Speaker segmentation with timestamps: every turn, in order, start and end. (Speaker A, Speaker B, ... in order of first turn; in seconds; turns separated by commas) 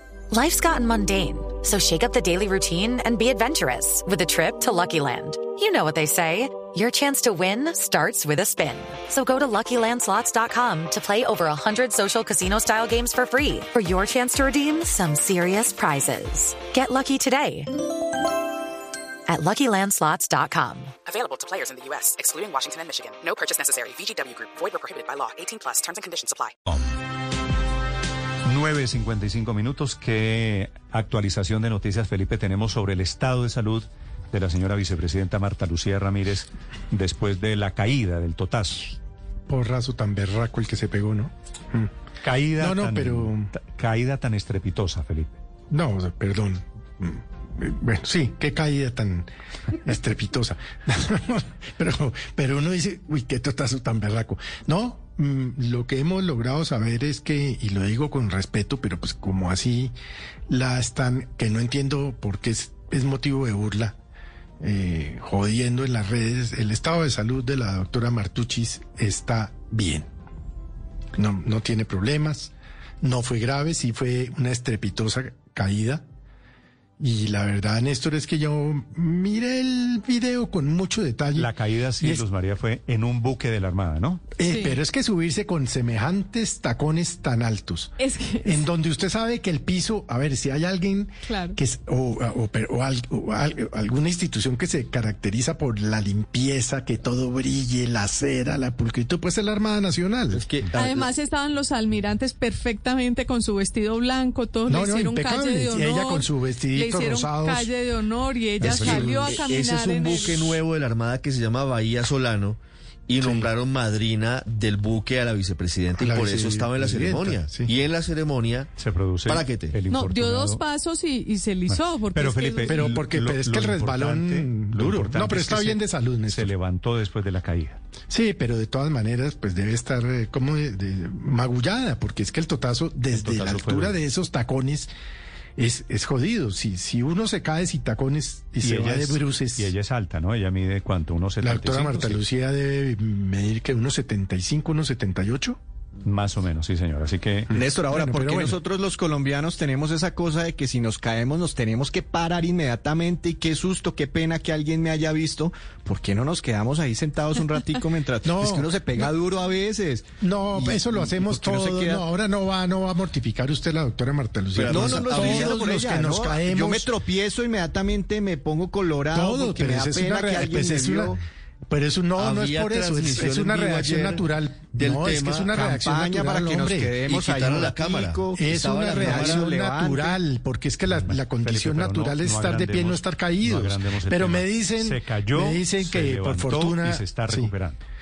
Speaker A: 0.3-17.7, Speaker A: 19.3-20.9, Speaker B: 21.1-26.5, Speaker C: 28.4-39.0, Speaker D: 39.5-41.9, Speaker C: 42.2-45.4, Speaker D: 42.6-43.5, Speaker D: 45.7-49.3, Speaker D: 49.8-59.9, Speaker D: 60.5-64.0, Speaker D: 64.6-70.1, Speaker D: 71.2-76.0, Speaker D: 77.0-82.2, Speaker C: 81.4-84.2, Speaker D: 84.4-100.6, Speaker E: 84.4-84.8, Speaker E: 88.0-88.7, Speaker E: 91.3-91.6, Speaker F: 100.3-101.1, Speaker E: 100.7-110.6, Speaker D: 104.7-107.7, Speaker D: 108.6-109.4, Speaker F: 109.1-118.7, Speaker D: 113.2-113.5, Speaker D: 116.0-117.7, Speaker C: 118.8-120.6, Speaker F: 119.3-119.8, Speaker E: 119.9-123.0, Speaker C: 121.7-125.8, Speaker D: 122.7-126.5, Speaker C: 126.3-127.8, Speaker D: 128.1-134.9, Speaker C: 133.2-133.9, Speaker D: 135.6-139.7, Speaker C: 138.6-142.2, Speaker D: 141.4-145.6, Speaker C: 146.0-147.5, Speaker D: 147.5-148.6, Speaker G: 147.6-162.0, Speaker D: 158.2-158.8, Speaker D: 160.2-166.9, Speaker F: 164.5-165.4, Speaker G: 164.7-171.2, Speaker D: 169.1-171.2, Speaker D: 171.7-177.1, Speaker F: 172.2-175.6, Speaker G: 175.6-180.2, Speaker F: 177.1-179.5, Speaker D: 178.3-187.5, Speaker C: 180.9-187.8